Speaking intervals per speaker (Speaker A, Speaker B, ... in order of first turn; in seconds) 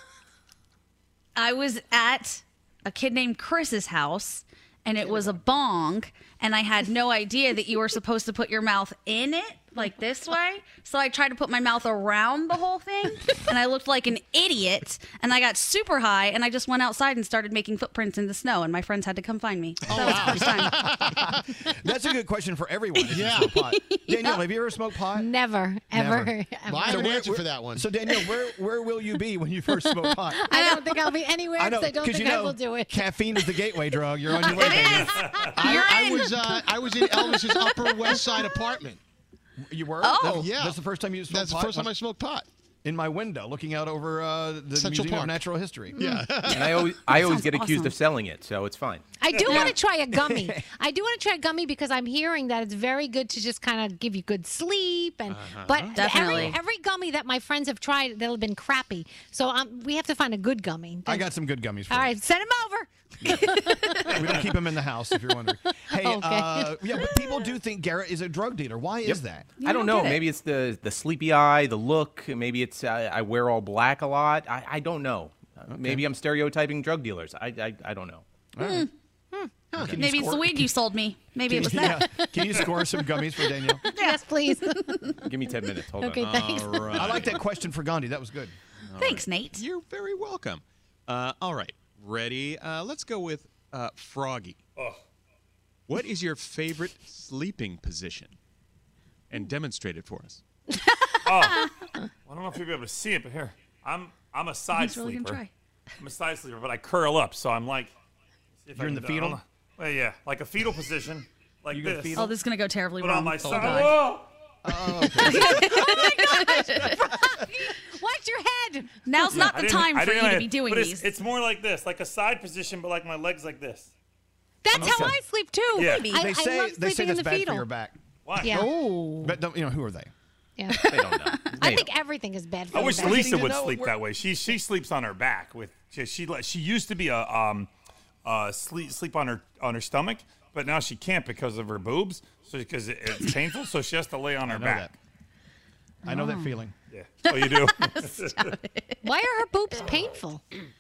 Speaker A: 1.4-21.1, 23.8-24.4, 30.5-31.1, 34.6-35.0, 35.7-36.0, 40.0-40.5, 47.3-47.9, 56.0-56.6, 69.6-70.2, 80.0-82.1, 83.9-84.6, 89.0-89.6, 104.8-105.5, 112.2-114.0, 115.2-117.0, 119.1-121.1, 125.8-126.2, 146.1-146.6, 147.3-149.0
Speaker B: 5.1-5.4, 55.3-56.6, 86.2-87.4, 88.9-94.6, 95.9-98.4, 99.3-100.4
Speaker C: 19.9-25.4, 25.9-30.5, 31.6-35.4, 39.6-41.9, 42.8-46.0, 49.6-50.6, 61.1-62.2, 63.2-69.5, 75.7-76.1, 78.5-78.9, 79.7-80.8, 81.5-83.8, 86.9-88.6, 108.8-109.4, 111.7-112.3, 114.6-115.8, 124.8-125.2, 126.1-128.7, 129.2-130.1, 132.7-134.0, 144.4-144.9, 146.1-146.7
Speaker D: 19.9-21.4, 23.1-23.5, 26.7-27.9, 35.5-39.0, 40.2-42.5, 44.8-46.9
Speaker E: 25.1-27.0, 29.8-33.8, 35.4-36.5, 49.2-61.3, 61.9-64.7, 65.9-67.2, 83.8-87.3, 115.2-119.5, 124.6-127.7, 128.4-129.4, 130.6-133.3, 149.0-150.4
Speaker F: 34.9-35.5, 101.2-101.7, 102.2-105.4, 106.0-107.9, 108.7-112.4, 113.0-114.3, 119.3-123.9, 124.7-125.1, 125.8-126.1, 128.3-128.6, 132.8-137.7, 138.2-144.9, 146.9-148.5
Speaker G: 46.5-49.7, 69.0-78.2, 85.2-86.2, 130.9-131.9